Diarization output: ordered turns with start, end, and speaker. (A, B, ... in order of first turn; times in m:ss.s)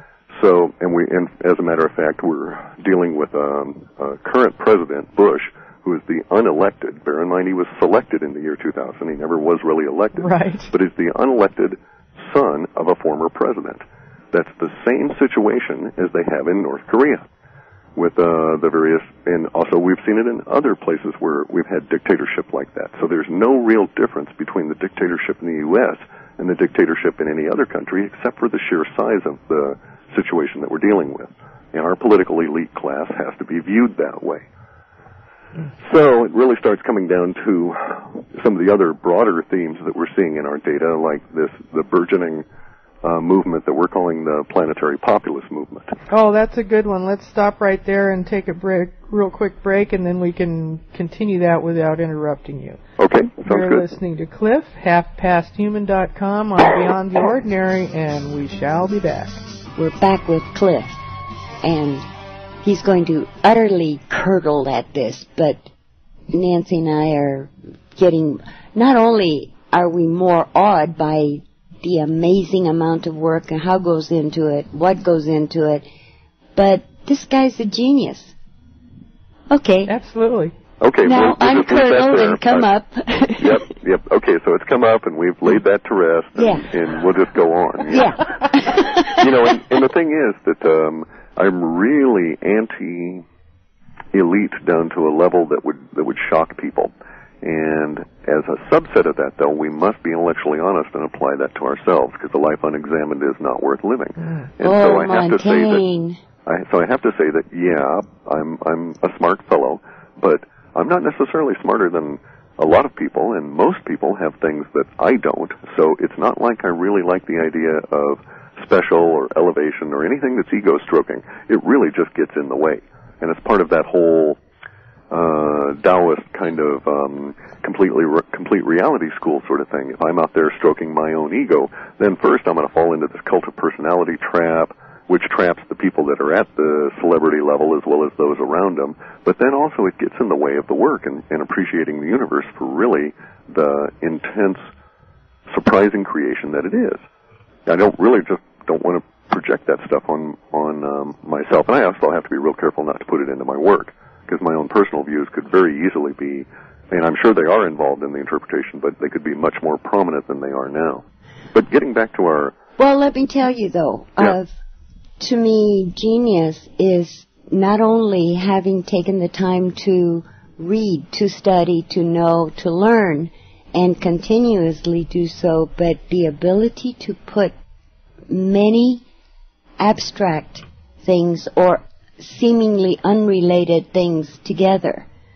0:00.4-0:17.2 A
0:10.2-0:10.7 B
0:18.0-0:34.4 A
0:35.8-0:42.4 A
0:43.0-0:45.9 A
0:46.1-0:52.8 B
0:53.0-0:53.9 A
0:53.4-0:59.4 B
0:59.8-1:01.0 C
1:01.6-1:02.0 C
1:02.6-1:05.7 C
1:06.3-1:15.8 C
1:16.6-1:18.3 C
1:19.5-1:19.9 C
1:19.9-1:20.5 B
1:20.8-1:22.7 A
1:21.0-1:23.6 C
1:23.4-1:28.2 A
1:26.4-1:26.7 C
1:27.9-1:29.2 C
1:29.1-1:33.2 A
1:34.1-1:45.8 A
1:44.6-1:46.2 C
1:46.5-2:04.4 A
2:05.1-2:24.6 A
2:25.5-2:27.0 A
2:27.7-2:42.6 A
2:42.8-2:44.5 C
2:45.2-2:57.5 C
2:58.3-2:59.0 C
2:59.8-3:05.1 C